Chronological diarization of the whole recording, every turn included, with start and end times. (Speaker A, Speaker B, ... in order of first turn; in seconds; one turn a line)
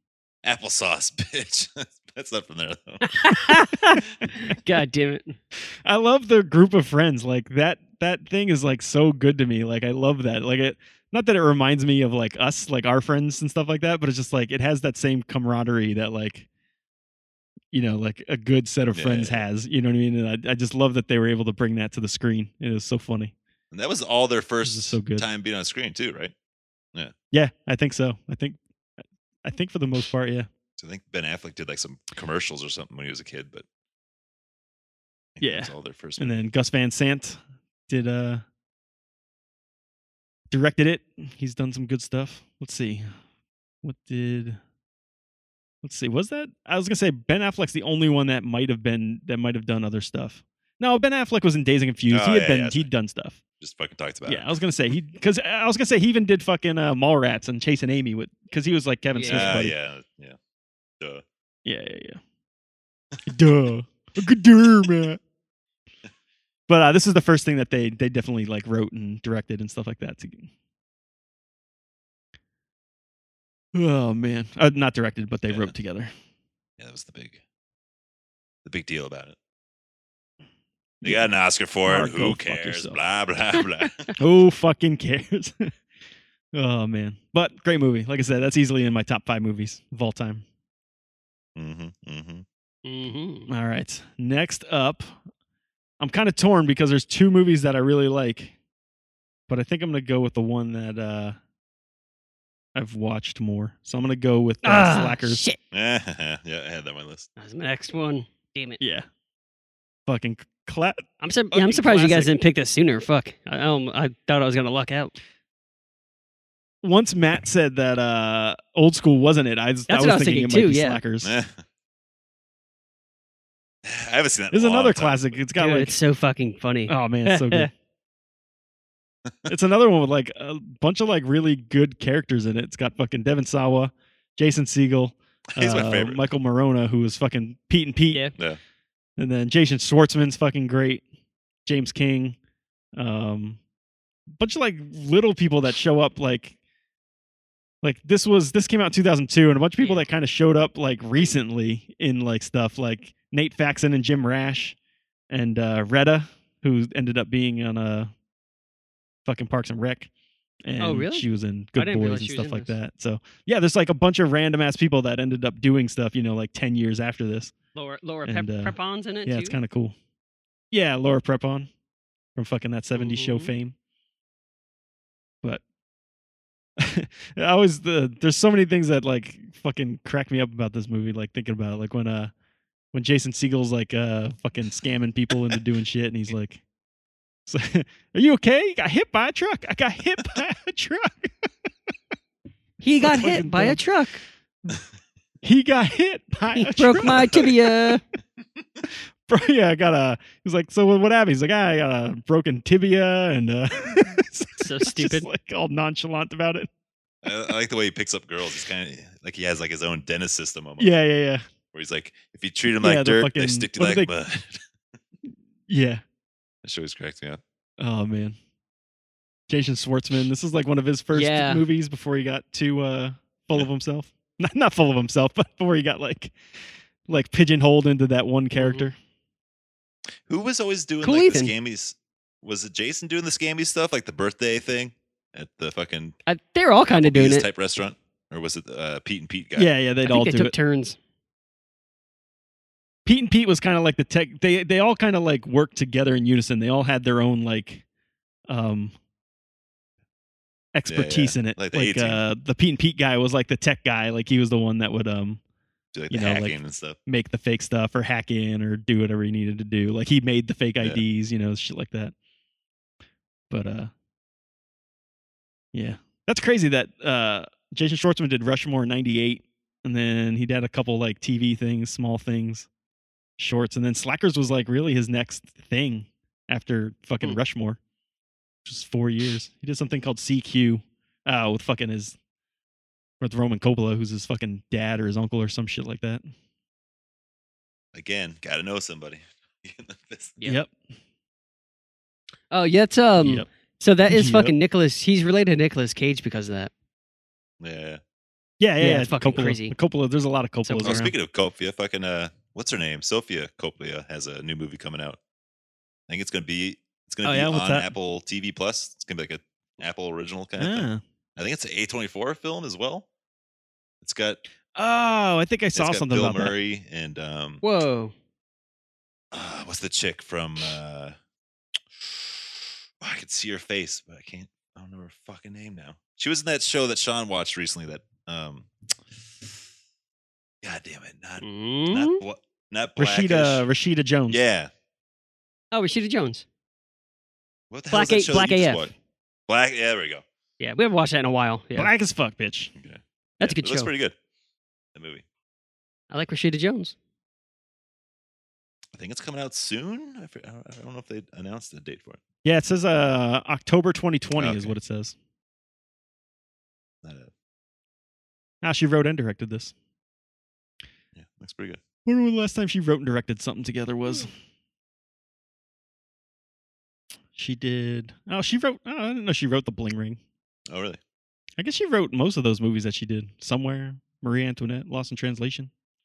Speaker A: 0.4-3.1
Speaker B: 3.0-5.4
Speaker C: 5.8-16.4
Speaker C: 17.7-23.3
Speaker A: 18.9-19.4
Speaker A: 23.7-26.3
Speaker C: 24.6-25.2
Speaker C: 27.3-28.6
Speaker C: 29.4-30.5
Speaker A: 30.8-33.6
Speaker A: 35.4-36.4
Speaker C: 35.4-38.4
Speaker C: 40.5-43.1
Speaker C: 43.8-44.6
Speaker C: 45.8-53.4
Speaker A: 52.1-52.9
Speaker A: 53.6-54.6
Speaker C: 54.2-59.7
Speaker B: 59.1-59.6
Speaker A: 59.3-60.4
Speaker C: 61.6-62.2
Speaker C: 63.2-65.2
Speaker C: 66.7-70.5
Speaker C: 73.7-76.1
Speaker A: 76.8-77.4
Speaker A: 78.6-79.3
Speaker A: 81.0-84.1
Speaker C: 81.8-83.0
Speaker C: 84.2-85.7
Speaker C: 86.5-90.4
Speaker A: 91.5-92.4
Speaker B: 92.8-93.5
Speaker C: 93.5-95.1
Speaker C: 96.0-98.5
Speaker C: 99.5-101.4
Speaker C: 102.7-105.4
Speaker B: 104.6-105.6
Speaker A: 105.7-107.3
Speaker B: 107.4-108.8
Speaker C: 108.8-109.0
Speaker C: 110.1-111.0
Speaker B: 111.2-115.1
Speaker A: 111.5-112.2
Speaker C: 116.8-121.3
Speaker B: 119.9-121.0
Speaker A: 121.2-121.6
Speaker A: 123.8-125.4
Speaker C: 124.5-126.0
Speaker B: 125.6-127.7
Speaker C: 126.9-127.7
Speaker C: 129.5-138.3
Speaker A: 135.5-136.2
Speaker C: 139.2-141.0
Speaker C: 141.7-142.3
Speaker C: 142.9-143.6
Speaker C: 144.4-146.6
Speaker C: 147.8-154.8
Speaker B: 149.8-150.1
Speaker C: 155.3-158.1
Speaker C: 159.2-160.1
Speaker C: 160.6-167.5
Speaker B: 160.8-161.2
Speaker B: 161.8-162.7
Speaker B: 167.7-169.6
Speaker C: 168.2-169.9
Speaker C: 170.7-171.7
Speaker C: 172.3-173.7
Speaker B: 172.9-173.5
Speaker C: 176.8-182.3
Speaker C: 182.9-186.6
Speaker C: 187.5-191.5
Speaker B: 192.8-194.2
Speaker C: 193.0-193.8
Speaker C: 195.4-197.5
Speaker B: 196.6-198.0
Speaker C: 199.3-206.7
Speaker B: 204.6-205.3
Speaker A: 207.2-210.9
Speaker C: 210.8-211.4
Speaker A: 211.7-214.6
Speaker C: 212.8-214.1
Speaker C: 215.7-216.0
Speaker A: 216.6-217.4
Speaker C: 217.8-218.3
Speaker C: 219.5-226.3
Speaker B: 221.1-221.6
Speaker C: 227.1-228.9
Speaker B: 228.6-228.8
Speaker A: 230.3-236.2
Speaker B: 231.0-231.5
Speaker B: 236.3-237.4
Speaker A: 236.9-239.7
Speaker C: 239.6-240.5
Speaker B: 240.1-241.0
Speaker C: 243.1-247.8
Speaker C: 248.5-248.9
Speaker C: 250.7-255.4
Speaker A: 250.9-252.2
Speaker A: 255.9-256.9
Speaker C: 256.1-262.1
Speaker C: 263.5-263.9
Speaker C: 265.7-272.7
Speaker C: 273.4-277.8
Speaker C: 278.6-282.1
Speaker C: 283.2-286.2
Speaker A: 287.9-290.4
Speaker C: 290.4-290.7
Speaker B: 292.5-296.7
Speaker C: 293.2-293.4
Speaker C: 294.1-294.5
Speaker A: 297.6-298.0
Speaker C: 298.6-301.1
Speaker B: 298.8-299.7
Speaker B: 300.6-301.0
Speaker A: 300.8-305.2
Speaker A: 306.1-313.1
Speaker C: 307.2-307.9
Speaker C: 310.6-311.0
Speaker A: 314.0-314.4
Speaker C: 314.7-316.5
Speaker A: 315.7-317.6
Speaker B: 317.6-318.1
Speaker A: 319.3-321.1
Speaker A: 321.9-328.7
Speaker A: 330.6-333.6
Speaker B: 331.4-332.2
Speaker C: 333.0-334.4
Speaker A: 334.3-334.7
Speaker B: 335.7-336.4
Speaker A: 337.7-338.9
Speaker B: 337.9-338.9
Speaker A: 339.5-340.2
Speaker B: 340.6-341.9
Speaker C: 341.8-342.7
Speaker A: 342.8-344.1
Speaker B: 343.4-343.9
Speaker A: 344.9-345.2
Speaker B: 346.1-346.9
Speaker A: 348.9-352.2
Speaker C: 352.4-355.1
Speaker A: 354.4-354.7
Speaker A: 357.0-357.3
Speaker C: 358.6-359.7
Speaker A: 361.1-361.8
Speaker C: 362.1-364.3
Speaker C: 367.4-370.2
Speaker A: 370.7-371.0
Speaker C: 371.6-375.7